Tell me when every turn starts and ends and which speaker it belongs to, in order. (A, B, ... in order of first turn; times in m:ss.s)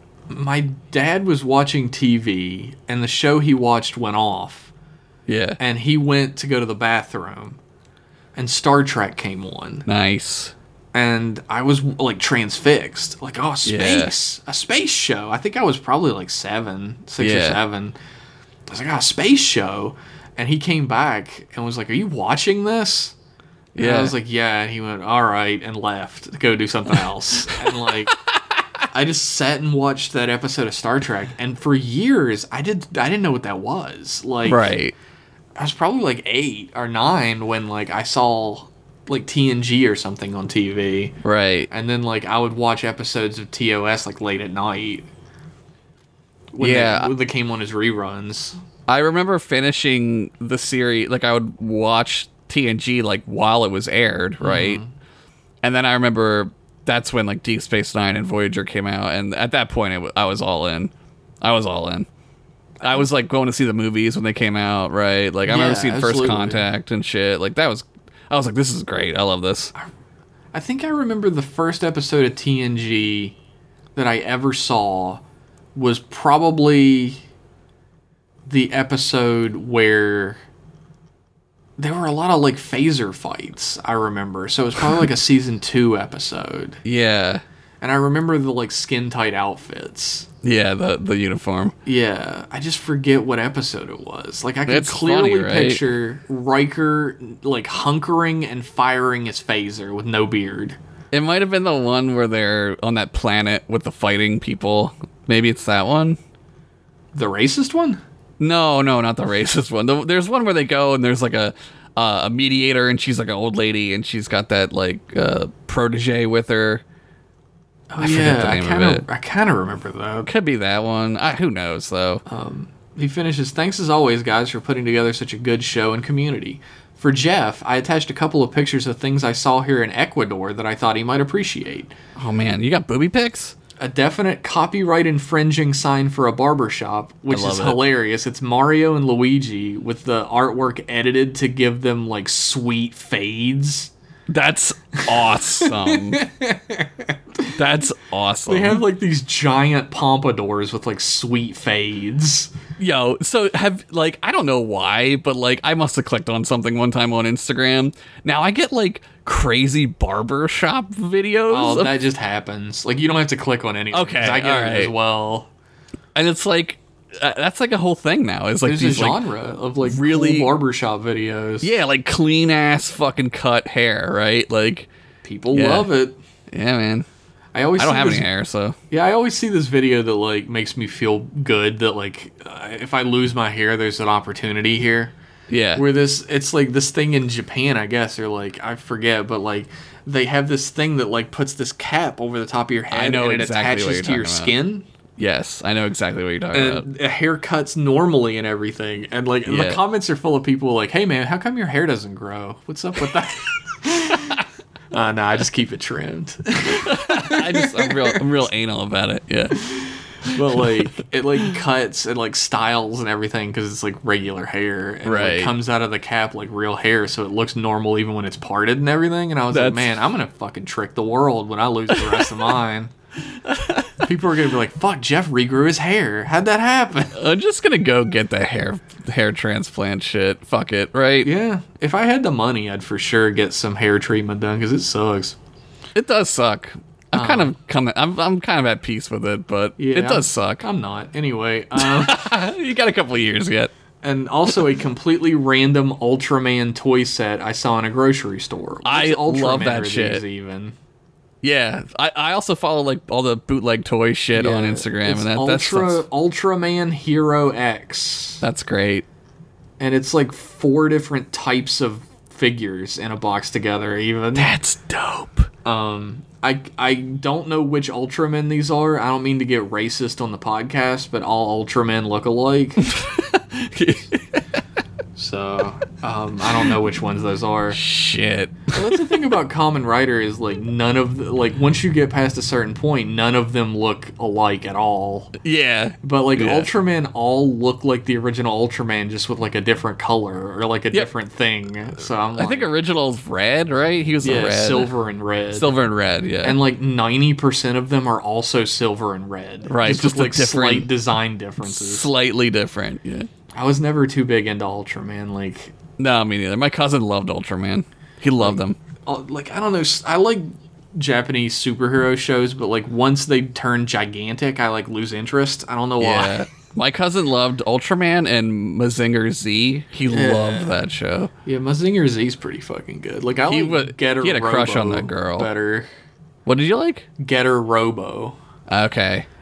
0:00.3-0:04.7 A
0:05.3-0:05.6 B
0:05.6-0:07.6 A
0:08.3-0:09.9 A
0:09.9-0:10.5 B
0:10.9-0:18.0 A
0:13.6-0:14.1 B
0:17.2-0:17.6 B
0:18.7-0:23.1 A
0:23.7-0:24.1 B
0:23.8-0:28.2 A
0:27.5-0:28.3 B
0:28.9-0:34.7 A
0:34.4-0:34.9 B
0:35.6-0:41.1 A
0:41.2-0:41.7 B
0:41.7-0:45.0 A
0:46.5-0:48.6 A
0:46.6-0:47.1 B
0:48.9-0:54.8 B
0:54.4-0:54.9 A
0:55.6-1:02.1 B
1:02.8-1:03.0 A
1:02.8-1:09.7 B
1:05.4-1:06.6 A
1:10.5-1:13.3 A
1:14.0-1:15.2 A
1:15.7-1:17.2 A
1:18.4-1:20.4 A
1:21.8-1:26.8 A
1:26.8-1:27.4 B
1:27.8-1:30.3 A
1:30.4-1:31.7 B
1:31.8-1:40.8 A
1:34.7-1:35.8 B
1:41.1-1:46.2 B
1:47.1-1:48.0 A
1:48.4-1:56.8 B
1:57.9-2:00.3 A
1:58.0-1:59.0 B
2:00.2-2:02.2 B
2:02.2-2:11.9 A
2:12.2-2:13.5 B
2:13.8-2:23.9 A
2:17.3-2:17.8 B
2:24.3-2:26.2 B
2:25.1-2:27.6 A
2:27.5-2:28.8 B
2:28.5-2:32.5 A
2:32.8-2:42.0 B
2:41.5-2:45.5 A
2:43.9-2:44.9 B
2:46.1-2:49.2 B
2:48.6-2:51.7 A
2:49.8-2:50.5 B
2:51.6-2:54.9 B
2:55.2-2:56.2 A
2:55.5-2:55.9 B
2:56.5-2:57.1 B
2:57.5-2:58.3 A
2:57.8-2:58.8 B
2:58.9-3:05.1 A
3:05.5-3:05.8 B
3:05.7-3:14.8 A
3:12.9-3:14.5 B
3:15.2-3:16.9 B
3:16.5-3:28.2 A
3:19.4-3:19.8 B
3:26.7-3:29.6 B
3:29.6-3:42.9 A
3:30.3-3:30.9 B
3:35.0-3:35.5 B
3:39.5-3:39.9 B
3:41.9-3:42.4 B
3:43.3-3:44.1 B
3:44.0-3:47.2 A
3:47.1-3:51.3 B
3:51.2-3:55.4 A
3:55.9-4:00.6 B
3:57.1-3:57.5 A
3:59.8-4:02.3 A
4:01.8-4:03.7 B
4:04.0-4:10.7 A
4:08.8-4:10.2 B
4:11.4-4:16.0 B
4:14.3-4:18.4 A
4:18.4-4:19.0 B
4:19.8-4:24.5 A
4:24.3-4:25.5 B
4:25.6-4:32.9 A
4:32.8-4:34.6 B
4:35.2-4:37.8 A
4:37.7-4:39.2 B
4:38.7-4:45.3 A
4:45.4-4:46.7 B
4:46.0-4:52.7 A
4:52.3-4:54.9 B
4:54.2-4:55.8 A
4:55.5-4:56.6 B
4:56.4-5:02.1 A
4:59.7-5:00.9 B
5:01.6-5:03.3 B
5:03.5-5:05.7 A
5:06.0-5:08.8 B
5:08.4-5:16.4 A
5:16.0-5:21.3 B
5:20.1-5:20.8 A
5:21.4-5:25.9 A
5:23.5-5:25.5 B
5:26.4-5:27.1 B
5:27.2-5:28.4 A
5:28.7-5:29.3 B